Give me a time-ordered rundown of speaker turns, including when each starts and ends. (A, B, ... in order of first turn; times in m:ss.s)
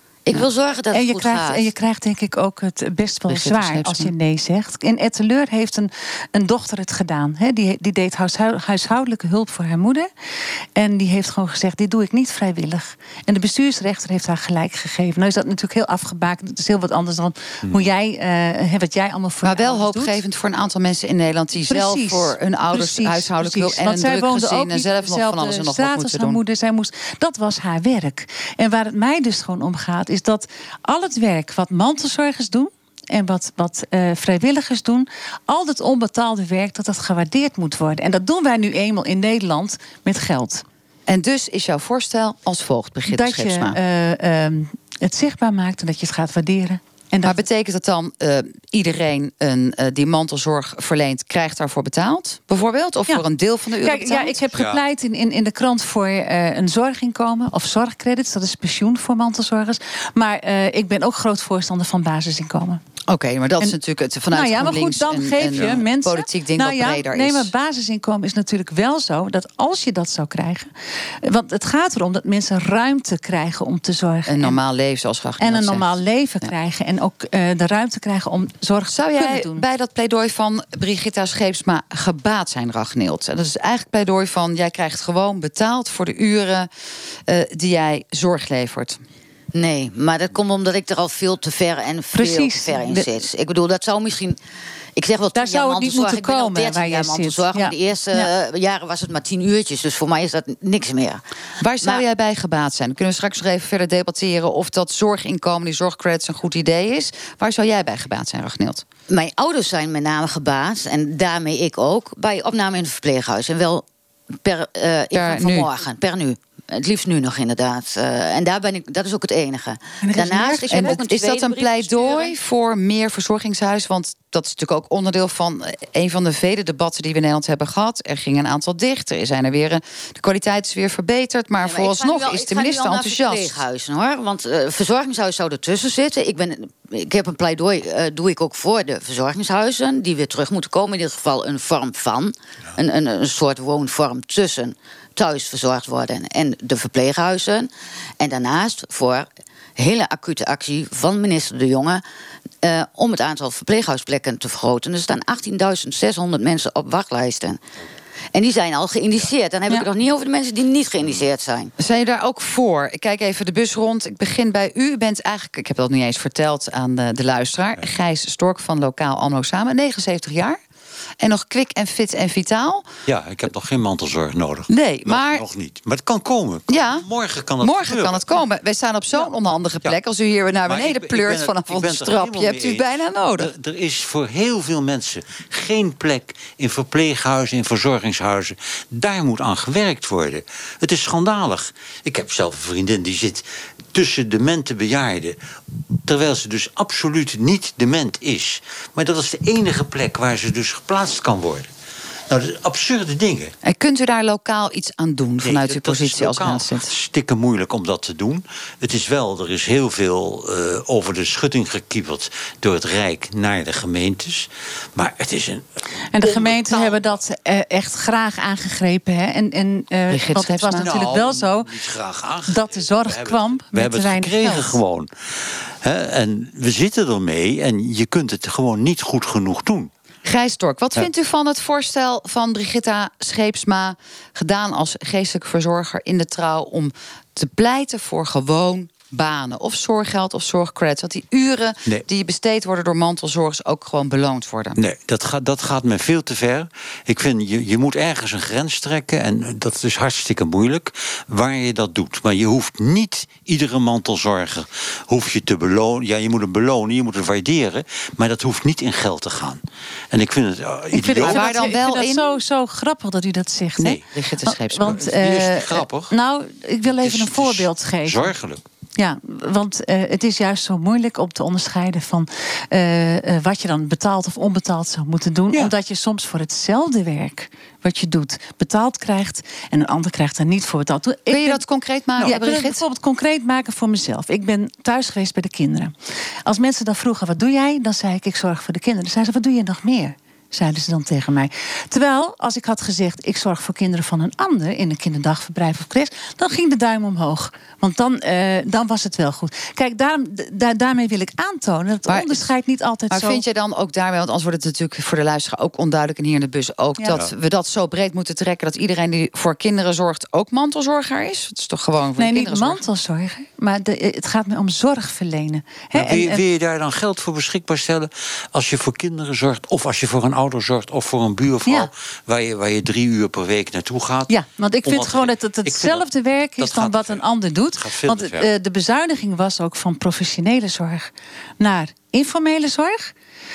0:00.2-0:01.6 A
0:00.9-0:10.1 B
0:03.3-0:04.1 C
0:10.8-0:20.2 B
0:19.4-0:26.4 C
0:21.7-0:40.6 B
0:41.1-0:43.8 C
0:43.1-0:47.4 B
0:47.2-0:54.4 C
0:53.8-1:02.8 B
0:54.5-0:54.8 D
1:03.1-1:07.5 C
1:04.3-1:10.7 B
1:11.2-1:14.6 B
1:14.3-1:16.5 C
1:15.4-1:19.6 B
1:18.9-1:26.7 C
1:27.3-1:29.0 C
1:29.5-1:34.4 A
1:32.1-1:33.2 B
1:35.0-1:41.2 A
1:35.3-1:38.3 B
1:41.6-1:48.8 C
1:49.1-1:53.8 A
1:54.4-2:02.3 A
1:55.1-1:55.7 C
2:00.0-2:01.0 B
2:00.7-2:13.6 C
2:11.6-2:32.0 A
2:32.6-2:37.6 A
2:38.3-2:41.7 A
2:41.8-2:50.6 C
2:51.2-2:52.9 C
2:53.1-2:58.4 D
2:54.7-2:55.4 C
2:56.7-2:57.0 C
2:57.6-3:03.5 C
3:00.6-3:15.4 D
3:16.1-3:21.7 D
3:22.3-3:23.5 D
3:23.6-3:26.9 C
3:25.4-3:35.7 D
3:36.1-3:41.7 B
3:36.2-3:37.2 D
3:40.1-3:40.9 C
3:40.7-3:49.9 D
3:42.5-3:44.8 B
3:50.2-4:04.8 C
4:04.8-4:21.4 D
4:20.9-4:28.3 B
4:21.1-4:22.4 C
4:23.8-4:24.0 D
4:24.1-4:25.1 C
4:24.9-4:26.1 D
4:26.9-4:28.6 D
4:29.0-4:41.6 B
4:41.3-4:42.8 C
4:42.2-4:45.9 B
4:46.4-5:03.4 B
5:02.1-5:02.5 C
5:03.1-5:12.8 C
5:07.0-5:07.2 B
5:12.2-5:16.4 B
5:15.9-5:27.2 D
5:21.6-5:21.9 B
5:24.3-5:33.1 B
5:27.8-5:28.5 D